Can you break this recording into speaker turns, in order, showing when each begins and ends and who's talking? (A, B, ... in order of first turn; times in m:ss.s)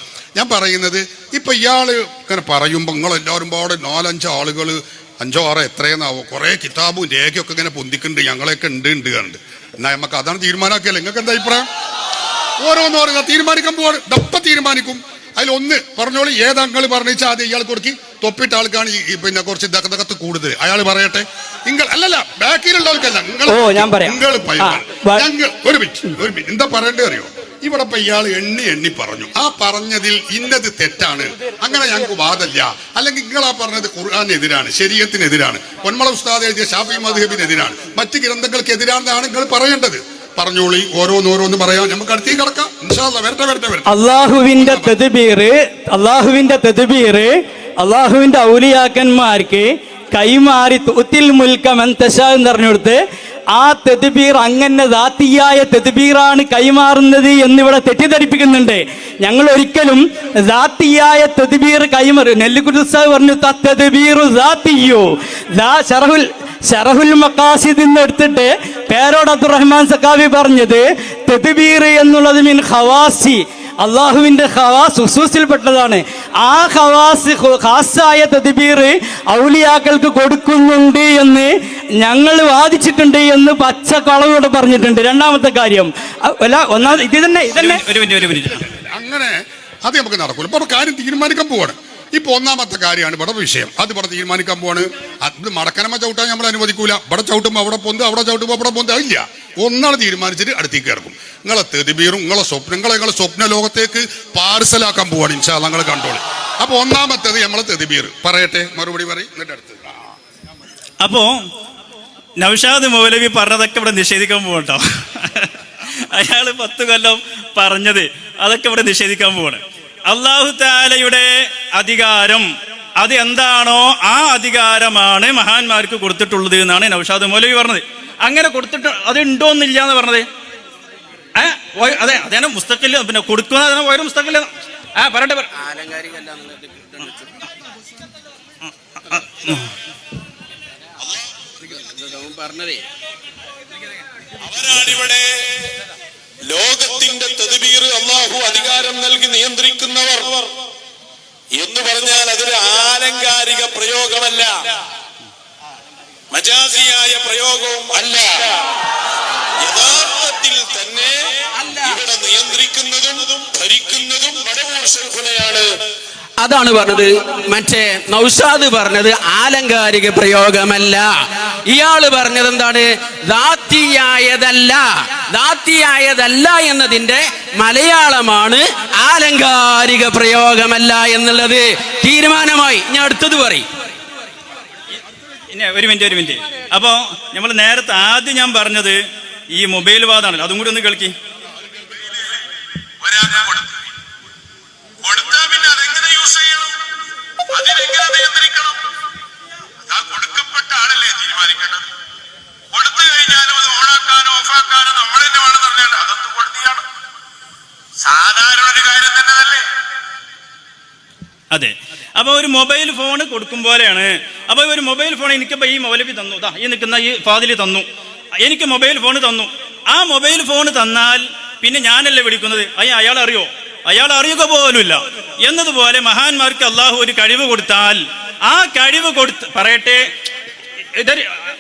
0:00.4-0:11.7 A
0:12.6-0:43.9 A
0:23.5-0:25.3 B
0:43.9-0:53.0 B
0:44.6-0:45.0 A
0:53.5-1:27.8 B
1:27.5-1:28.7 C
1:28.6-1:50.0 A
1:51.0-1:51.3 C
1:52.4-2:02.5 C
2:03.0-2:10.3 C
2:11.4-2:15.5 C
2:15.6-2:17.3 D
2:19.1-2:19.7 C
2:21.7-2:22.8 D
2:24.5-2:25.2 E
2:26.5-2:30.5 E
2:31.6-2:34.6 E
2:36.3-2:38.5 E
2:39.6-2:41.1 E
2:41.8-2:45.8 E
2:46.4-2:51.0 D
2:51.7-2:52.8 D
2:53.3-2:54.8 D
2:55.4-3:03.6 D
3:05.5-3:09.0 C
3:09.5-3:11.1 C
3:13.0-3:13.8 E
3:15.0-3:16.8 E
3:17.5-3:18.8 E
3:19.9-3:21.9 E
3:22.7-3:26.8 E
3:28.0-3:29.7 E
3:31.5-3:37.8 C
3:38.4-3:50.0 C
3:51.0-3:51.3 C